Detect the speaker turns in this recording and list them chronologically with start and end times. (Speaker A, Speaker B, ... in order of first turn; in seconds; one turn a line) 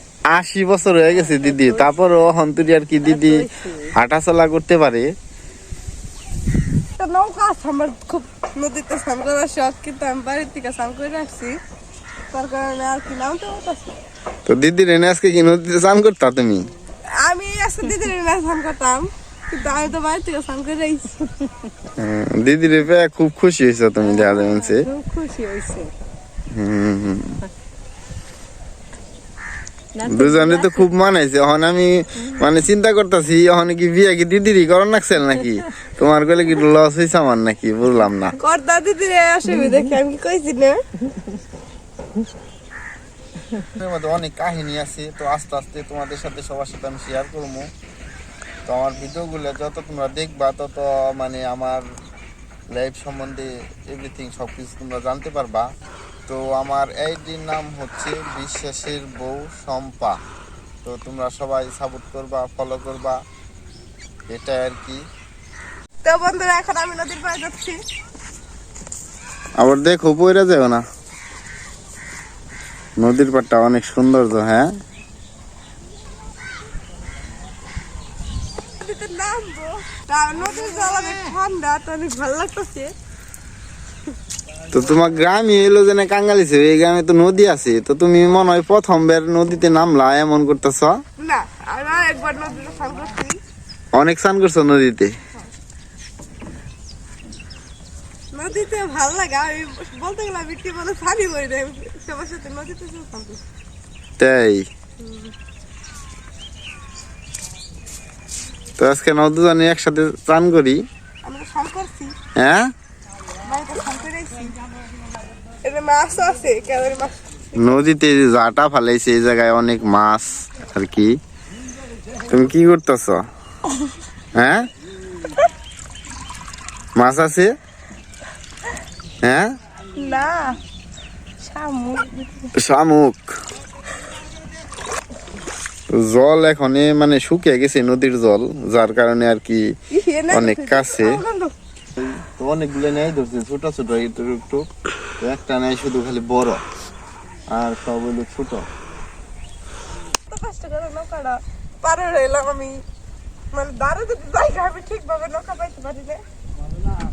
Speaker A: 0.3-3.4
Speaker B: 1.1-1.9
Speaker B: 3.0-3.9
Speaker A: 4.0-5.1
Speaker C: 7.0-11.6
Speaker C: 12.3-13.9
Speaker A: 14.4-16.6
Speaker C: 17.2-21.1
Speaker B: 21.4-21.7
Speaker A: 22.0-24.8
Speaker B: 24.0-25.9
Speaker A: 26.5-27.4
Speaker B: 29.9-30.9
Speaker A: 30.1-38.4
Speaker C: 38.4-40.8
Speaker B: 39.5-39.9
Speaker A: 43.8-47.7
Speaker A: 48.6-51.9
Speaker A: 52.7-55.7
Speaker A: 56.3-60.2
Speaker A: 60.8-63.2
Speaker A: 64.3-65.0
Speaker C: 66.0-67.8
Speaker A: 69.6-70.8
Speaker A: 73.0-74.7
Speaker C: 78.8-82.9
Speaker A: 84.7-91.0
Speaker C: 91.2-93.4
Speaker A: 93.9-95.2
Speaker C: 98.3-103.4
Speaker A: 104.2-104.7
Speaker C: 105.0-105.3
Speaker A: 108.8-110.8
Speaker C: 111.2-112.1
Speaker A: 112.3-112.7
Speaker C: 113.5-114.5
Speaker C: 115.6-117.2
Speaker A: 117.6-121.2
Speaker A: 122.3-123.3
Speaker A: 124.3-124.7
Speaker A: 127.0-127.5
Speaker A: 129.2-129.6
Speaker C: 129.9-130.6
Speaker C: 131.4-132.5
Speaker A: 132.6-133.3
Speaker A: 135.9-139.7
Speaker C: 139.9-141.5
Speaker A: 140.3-141.2
Speaker A: 142.0-144.7
Speaker A: 145.2-146.6
Speaker A: 147.5-148.7
Speaker C: 150.3-152.8
Speaker C: 153.5-156.2